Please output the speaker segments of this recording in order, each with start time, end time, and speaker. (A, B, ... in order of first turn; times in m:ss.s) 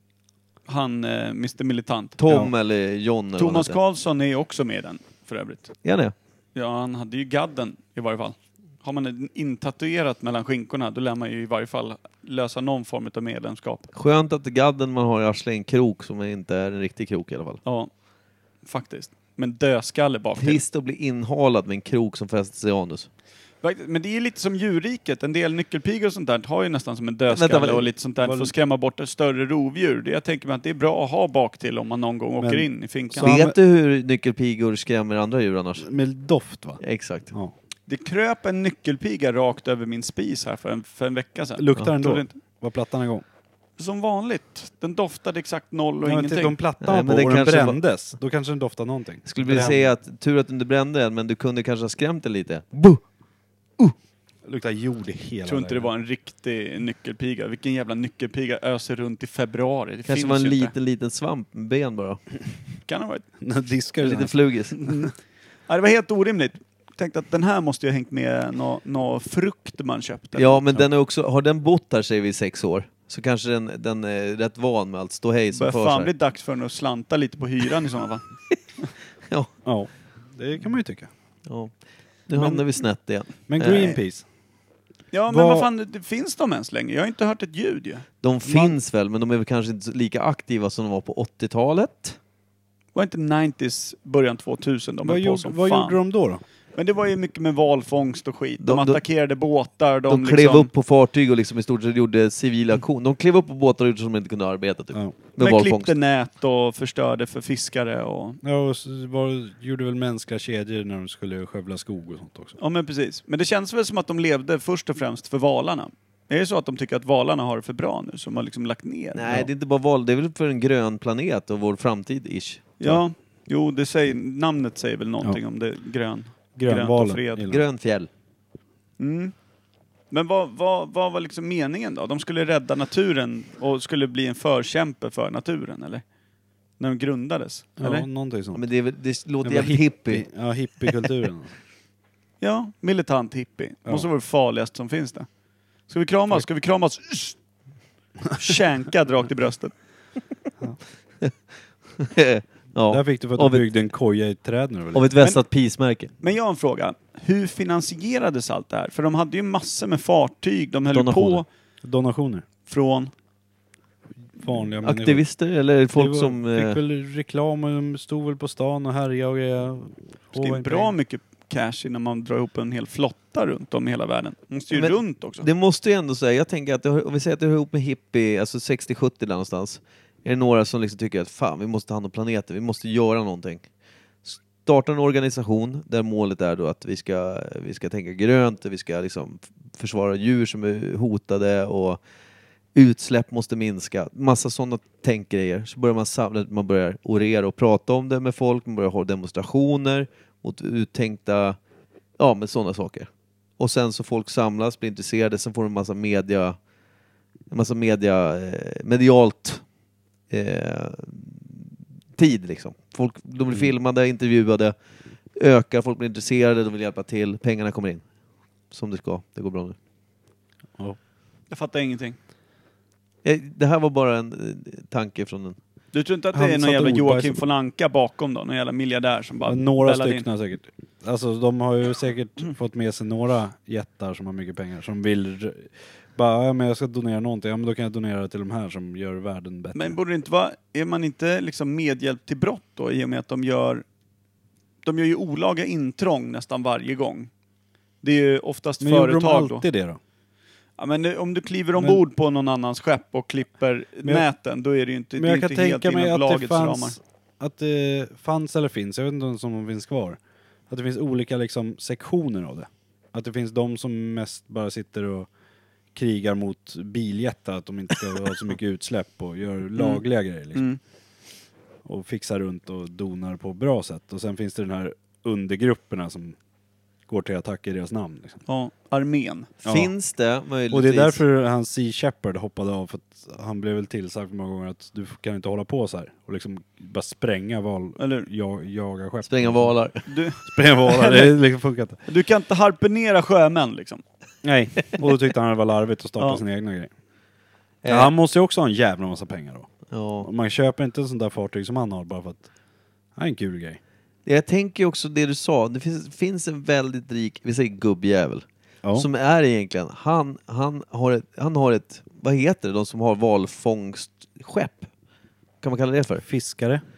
0:00.7-0:02.2 A
0:02.2-0:03.8 B
0:02.2-0:02.5 C
0:03.4-0:05.7 A
0:05.8-0:06.1 B
0:06.5-0:13.9 A
0:13.9-0:17.6 B
0:17.6-0:17.9 A
0:18.6-0:20.6 A
0:20.4-0:23.1 B
0:23.6-0:33.3 A
0:27.3-0:27.9 B
0:28.2-0:28.5 C
0:32.4-0:33.6 C
0:33.2-0:35.9 B
0:35.8-0:37.5 C
0:36.8-0:37.3 B
0:37.9-0:42.3 A
0:41.6-0:43.2 C
0:43.8-0:46.6 A
0:46.0-0:49.9 C
0:46.8-0:47.8 B
0:49.2-0:53.0 B
0:54.4-0:55.9 C
0:55.4-1:00.7 A
1:00.0-1:02.2 B
1:02.9-1:03.2 A
1:03.4-1:04.3 C
1:04.0-1:04.8 B
1:04.8-1:05.1 A
1:05.7-1:10.6 A
1:10.4-1:16.1 B
1:15.5-1:18.2 A
1:19.6-1:21.1 C
1:22.3-1:24.0 B
1:22.3-1:22.6 C
1:23.5-1:24.2 C
1:25.1-1:28.0 A
1:25.3-1:25.7 C
1:28.2-1:32.2 B
1:28.5-1:28.7 C
1:32.9-1:36.0 A
1:35.0-1:36.4 C
1:36.7-1:40.7 A
1:38.6-1:39.0 B
1:40.1-1:45.9 B
1:45.4-1:48.4 A
1:48.4-1:52.6 C
1:52.6-1:59.4 A
1:59.1-2:02.7 B
2:02.8-2:07.4 A
2:06.5-2:07.6 C
2:07.5-2:08.1 B
2:09.0-2:09.3 A
2:10.1-2:16.0 A
2:16.8-2:18.1 A
2:17.8-2:18.6 C
2:18.5-2:20.2 B
2:19.4-2:21.5 C
2:22.4-2:25.3 A
2:25.9-2:27.4 A
2:28.4-2:29.7 A
2:32.0-2:33.6 B
2:32.9-2:35.1 C
2:34.9-2:36.1 B
2:36.2-2:41.4 A
2:40.9-2:41.4 B
2:41.8-2:42.4 C
2:42.7-2:43.1 A
2:44.4-2:45.2 C
2:44.8-2:46.8 B
2:45.9-2:50.9 C
2:50.4-2:55.4 A
2:54.7-3:03.6 B
3:04.2-3:12.0 B
3:12.7-3:21.6 B
3:22.2-3:26.6 B
3:27.5-3:29.6 B
3:30.3-3:31.6 B
3:32.2-3:34.7 B
3:35.4-3:38.0 B
3:38.7-3:39.7 B
3:41.5-3:42.2 A
3:43.2-3:45.6 B
3:45.9-3:50.2 A
3:46.3-3:47.4 C
3:49.5-4:00.0 C
3:59.7-4:03.8 A
4:04.8-4:07.3 A
4:08.0-4:09.6 A
4:08.8-4:10.0 C
4:10.8-4:17.0 A
4:15.2-4:25.3 C
4:25.9-4:30.7 C
4:29.8-4:30.0 A
4:31.8-4:36.4 C
4:37.1-4:38.4 C
4:38.4-4:39.5 A
4:39.6-4:39.9 C
4:39.6-4:41.2 B
4:40.7-4:49.7 C
4:48.0-4:48.3 A
4:49.2-4:50.0 B
4:50.1-4:51.4 A
4:50.4-4:52.0 C
4:52.1-4:54.0 A
4:54.4-4:56.9 C
4:57.8-4:58.1 B
4:57.8-4:59.7 C
4:59.9-5:00.3 B
5:00.2-5:02.4 C
5:03.2-5:03.8 C
5:04.2-5:14.9 B
5:15.6-5:16.2 B
5:16.2-5:16.8 C